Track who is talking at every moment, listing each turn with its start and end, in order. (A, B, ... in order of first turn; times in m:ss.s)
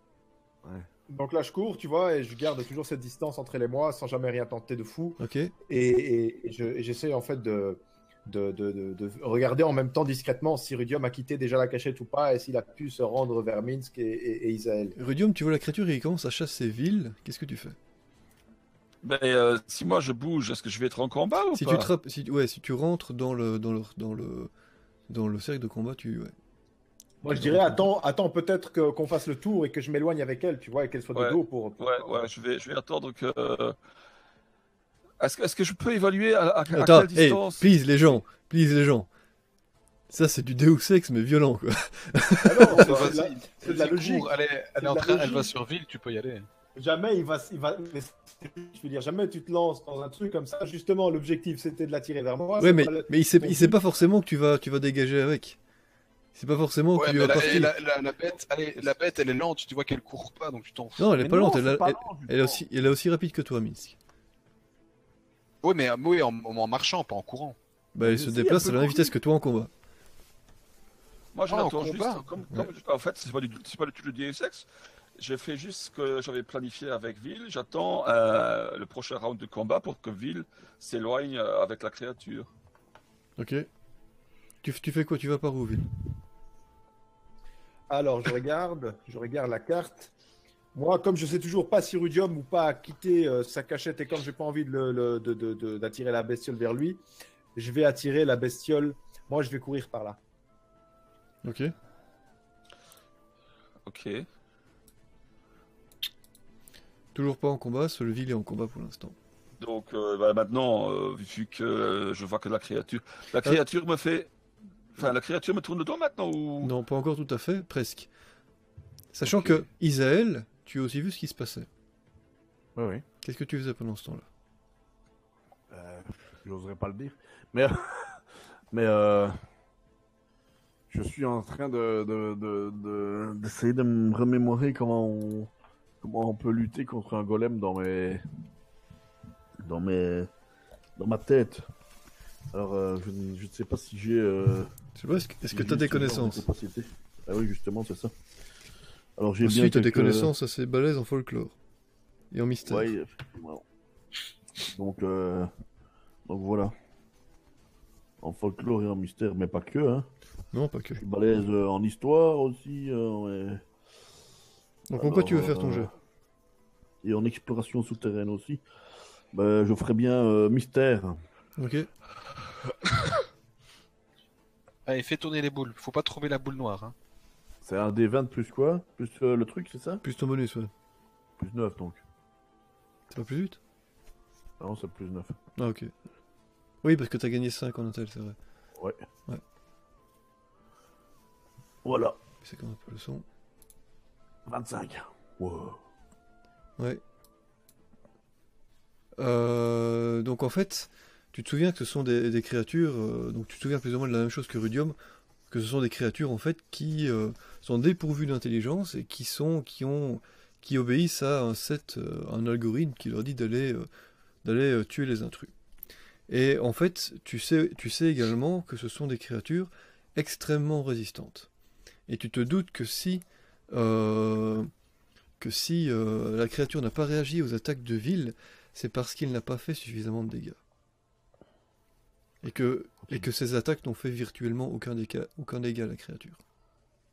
0:01.1-0:15.0 A
0:05.2-0:05.5 B
0:15.0-0:17.8 B
0:19.0-0:21.9 C
0:21.5-0:24.5 B
0:25.1-0:26.3 B
0:27.2-0:32.3 A
0:27.3-0:27.8 B
0:31.1-0:33.8 C
0:35.2-0:37.7 C
0:36.7-0:39.1 B
0:40.1-0:42.9 B
0:42.4-0:45.5 A
0:42.6-0:46.5 D
0:46.7-0:53.8 A
0:52.6-0:55.6 B
0:56.3-0:57.7 B
0:56.9-1:01.1 D
1:01.0-1:04.0 B
1:01.2-1:02.6 E
1:05.6-1:07.6 D
1:07.9-1:09.7 B
1:08.0-1:09.1 E
1:11.3-1:14.6 C
1:11.5-1:12.2 D
1:15.2-1:22.5 C
1:23.4-1:23.7 B
1:24.6-1:25.8 B
1:27.9-1:30.1 A
1:30.7-1:37.0 A
1:37.5-1:40.2 A
1:41.4-1:41.7 B
1:43.8-1:44.2 C
1:47.1-1:49.2 B
1:49.6-1:54.3 C
1:55.0-1:56.7 C
1:56.6-1:58.1 B
1:59.1-2:01.7 B
2:02.8-2:03.0 E
2:03.2-2:04.2 B
2:05.7-2:08.2 E
2:08.7-2:09.4 E
2:10.9-2:18.2 E
2:19.6-2:20.3 E
2:21.0-2:21.6 E
2:22.5-2:24.7 E
2:25.0-2:26.4 B
2:25.5-2:28.1 E
2:29.2-2:30.3 E
2:29.4-2:31.6 B
2:32.3-2:32.9 B
2:32.6-2:33.6 E
2:34.6-2:35.5 E
2:36.3-2:36.7 E
2:38.2-2:40.1 E
2:40.5-2:41.0 B
2:41.0-2:43.6 E
2:44.9-2:45.9 B
2:45.0-2:45.9 E
2:47.0-2:48.6 E
2:49.3-2:51.2 E
2:51.6-2:51.9 B
2:54.8-2:56.9 D
2:57.6-3:00.0 E
3:00.0-3:00.7 B
3:01.4-3:02.0 E
3:03.1-3:03.6 B
3:04.6-3:05.4 E
3:05.6-3:05.9 B
3:06.8-3:08.4 B
3:08.8-3:09.0 E
3:11.8-3:12.2 E
3:12.4-3:13.2 B
3:14.4-3:15.8 E
3:19.2-3:24.9 B
3:25.5-3:33.9 B
3:34.4-3:35.5 B
3:36.3-3:41.5 B
3:42.1-3:44.7 B
3:45.4-3:50.6 B
3:52.4-3:56.4 B